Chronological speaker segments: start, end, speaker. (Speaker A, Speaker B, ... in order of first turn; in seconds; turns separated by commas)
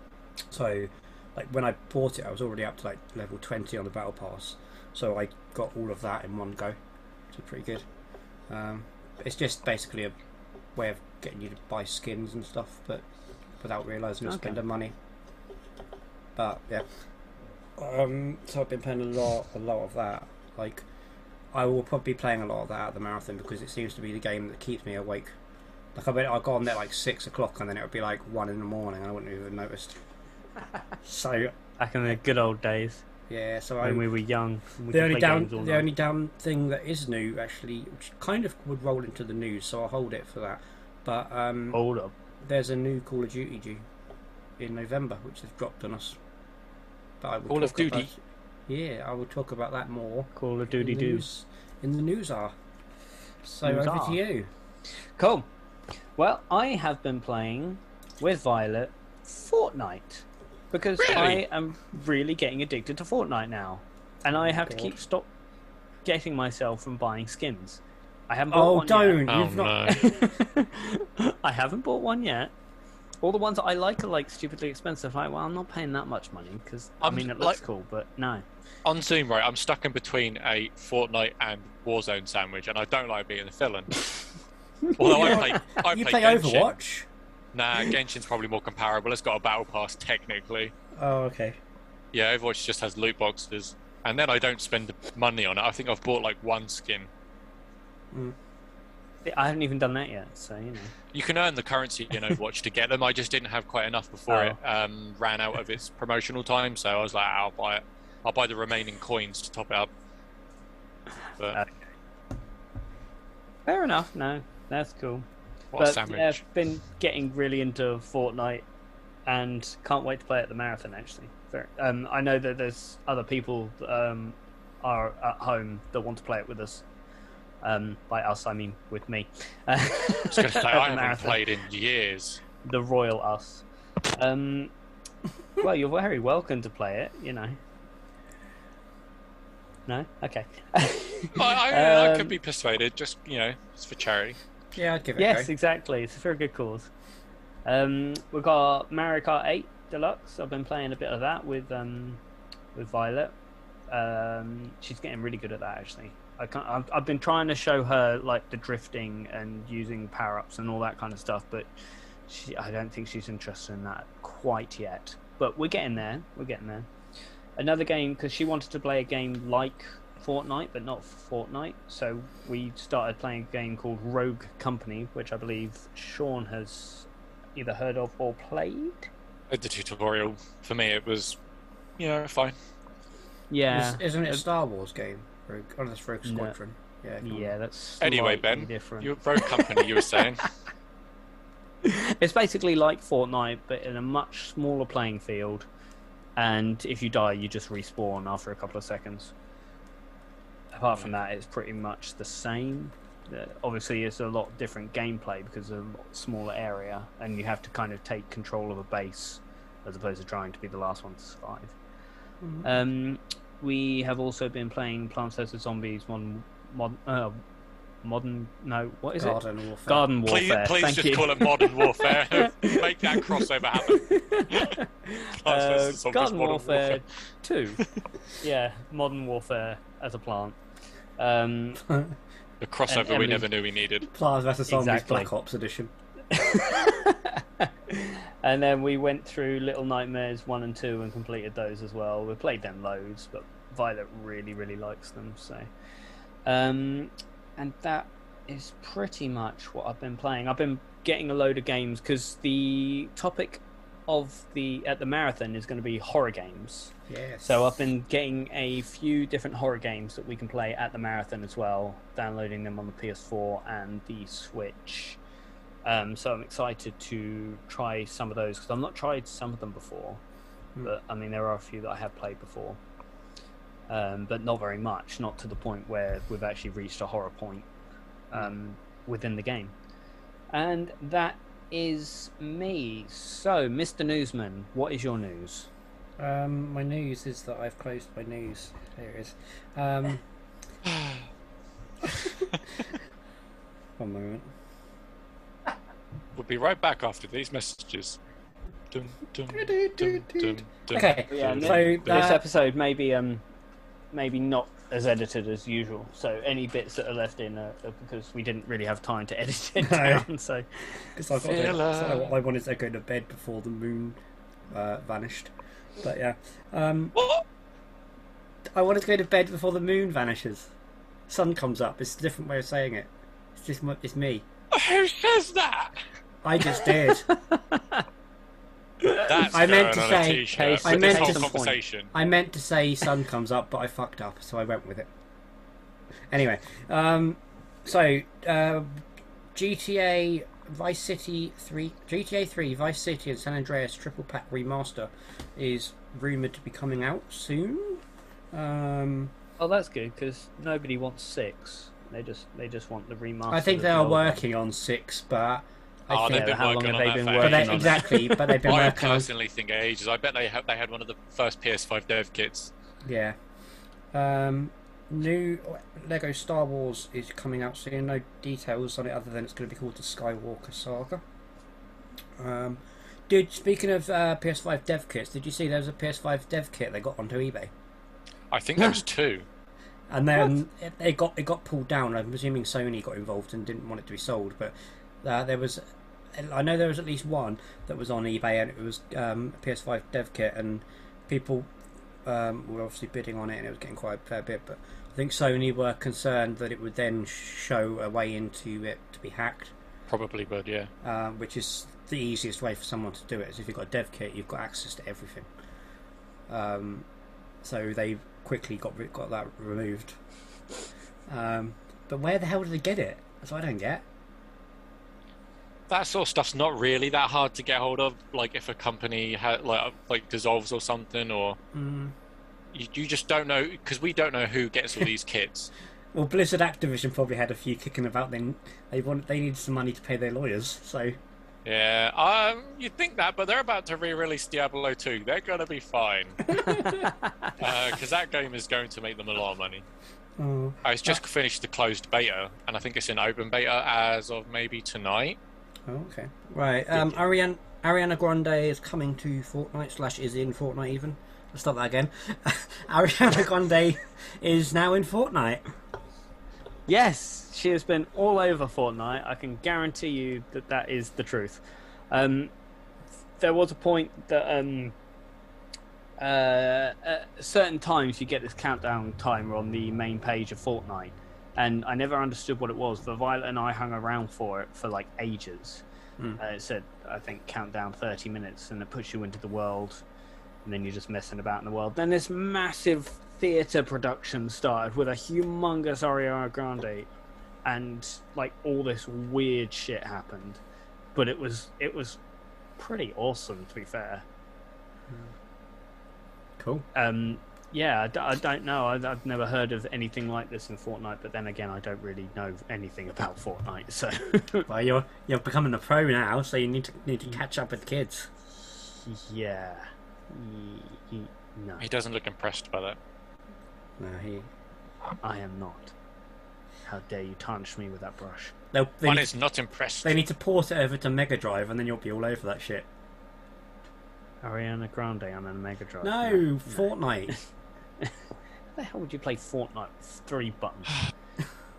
Speaker A: 0.5-6.8, Speaker A: 7.3-7.8, Speaker A: 8.5-10.1, Speaker A: 10.8-13.0, Speaker A: 13.6-14.9, Speaker B: 14.2-14.6, Speaker A: 16.4-16.9, Speaker A: 17.8-20.9, Speaker A: 21.5-25.3, Speaker A: 25.9-30.0, Speaker A: 31.0-31.5, Speaker B: 31.8-33.0, Speaker A: 33.3-34.1, Speaker B: 33.8-35.9, Speaker A: 34.9-41.8, Speaker B: 41.7-42.1, Speaker A: 42.4-43.8, Speaker A: 44.6-46.2, Speaker A: 47.2-48.1, Speaker C: 47.5-48.1, Speaker A: 48.7-52.5, Speaker B: 50.3-51.3, Speaker A: 53.4-54.5, Speaker B: 53.6-54.2, Speaker B: 55.2-55.5, Speaker B: 56.2-65.3, Speaker C: 61.0-61.4, Speaker A: 64.4-65.0, Speaker B: 66.0-69.2, Speaker A: 68.5-70.0, Speaker C: 69.3-70.2, Speaker B: 69.9-72.5, Speaker B: 73.2-78.4, Speaker C: 77.0-77.6, Speaker C: 78.8-84.1, Speaker B: 84.8-85.4, Speaker C: 85.0-86.7, Speaker A: 85.0-87.1, Speaker C: 87.5-90.7, Speaker A: 91.0-91.6, Speaker C: 92.1-97.1, Speaker B: 99.2-100.9, Speaker C: 101.1-109.9, Speaker B: 104.3-104.6, Speaker B: 113.7-115.2, Speaker C: 115.7-116.4, Speaker B: 115.8-118.7, Speaker B: 119.3-126.8, Speaker B: 127.6-131.4, Speaker C: 130.3-132.4, Speaker B: 132.6-134.7, Speaker B: 135.6-137.6, Speaker B: 139.9-142.4, Speaker C: 141.3-144.4, Speaker A: 144.7-145.5, Speaker B: 145.2-146.9, Speaker B: 147.6-152.2, Speaker B: 152.7-153.3, Speaker B: 153.9-161.7, Speaker B: 162.3-166.9, Speaker B: 167.6-179.1, Speaker C: 179.5-181.4, Speaker C: 182.0-182.5, Speaker B: 183.5-184.4, Speaker A: 183.7-187.5, Speaker B: 186.2-186.5, Speaker B: 187.2-190.2, Speaker C: 188.0-190.5, Speaker B: 191.8-195.7, Speaker B: 196.4-199.3, Speaker B: 200.7-211.7, Speaker A: 212.4-212.7, Speaker B: 212.6-217.4, Speaker B: 218.0-227.8, Speaker A: 219.2-220.1, Speaker C: 220.2-224.8, Speaker C: 225.4-227.0, Speaker B: 228.4-230.6, Speaker B: 231.2-231.8, Speaker A: 231.9-232.1, Speaker C: 232.6-234.1, Speaker B: 232.9-233.5, Speaker A: 234.1-235.9, Speaker B: 234.7-235.3, Speaker B: 236.3-245.7, Speaker B: 246.4-256.9, Speaker A: 257.1-257.8, Speaker B: 257.4-265.2, Speaker B: 265.8-270.2, Speaker B: 270.8-272.8, Speaker B: 273.9-277.7, Speaker B: 278.3-279.7, Speaker B: 280.5-285.7, Speaker A: 286.2-290.2, Speaker C: 290.8-291.3, Speaker A: 294.0-294.5, Speaker C: 296.3-298.2, Speaker C: 298.9-302.4, Speaker A: 299.5-302.4, Speaker B: 301.3-303.4, Speaker B: 304.1-311.1, Speaker A: 309.8-310.3, Speaker A: 311.1-314.2, Speaker C: 311.4-312.3, Speaker A: 314.7-317.1, Speaker C: 317.1-317.4, Speaker A: 318.7-320.7, Speaker A: 321.3-324.4, Speaker C: 324.7-326.0, Speaker A: 326.4-327.3, Speaker B: 326.7-328.0, Speaker B: 329.0-329.5, Speaker C: 329.2-332.1, Speaker A: 329.5-331.6, Speaker B: 330.5-331.8, Speaker A: 332.1-335.1, Speaker A: 336.3-339.0, Speaker A: 339.5-349.3, Speaker B: 349.6-354.4, Speaker A: 353.5-356.6, Speaker C: 356.1-362.7, Speaker B: 356.3-358.6, Speaker A: 357.4-359.3, Speaker A: 363.0-363.4, Speaker A: 364.1-371.2, Speaker A: 372.4-377.7, Speaker C: 378.5-379.4, Speaker A: 380.1-385.8, Speaker A: 386.3-391.7, Speaker A: 392.2-399.7, Speaker C: 400.1-400.9, Speaker A: 401.0-405.5, Speaker A: 406.5-407.1, Speaker A: 407.6-410.1, Speaker A: 411.3-414.0, Speaker C: 415.9-421.6, Speaker A: 421.7-422.1, Speaker C: 422.7-425.7, Speaker A: 426.1-431.2, Speaker C: 431.6-436.5, Speaker B: 436.5-437.6, Speaker A: 436.5-437.0, Speaker C: 437.6-439.8, Speaker A: 440.4-441.2, Speaker C: 440.8-445.4, Speaker A: 445.9-455.6, Speaker B: 456.9-462.5, Speaker B: 463.4-464.9, Speaker B: 466.2-475.8, Speaker B: 476.4-480.0, Speaker B: 480.6-487.1, Speaker B: 487.6-490.6, Speaker B: 491.1-492.2, Speaker B: 492.8-494.2, Speaker A: 496.6-496.9, Speaker B: 496.9-504.7, Speaker A: 504.7-508.3, Speaker B: 508.6-511.8, Speaker C: 511.8-513.0, Speaker A: 514.0-514.5, Speaker B: 515.2-515.9, Speaker B: 516.9-518.5, Speaker A: 518.7-519.3, Speaker C: 519.0-520.2, Speaker A: 520.0-522.9, Speaker B: 524.4-527.3, Speaker A: 526.0-527.4, Speaker B: 528.8-531.0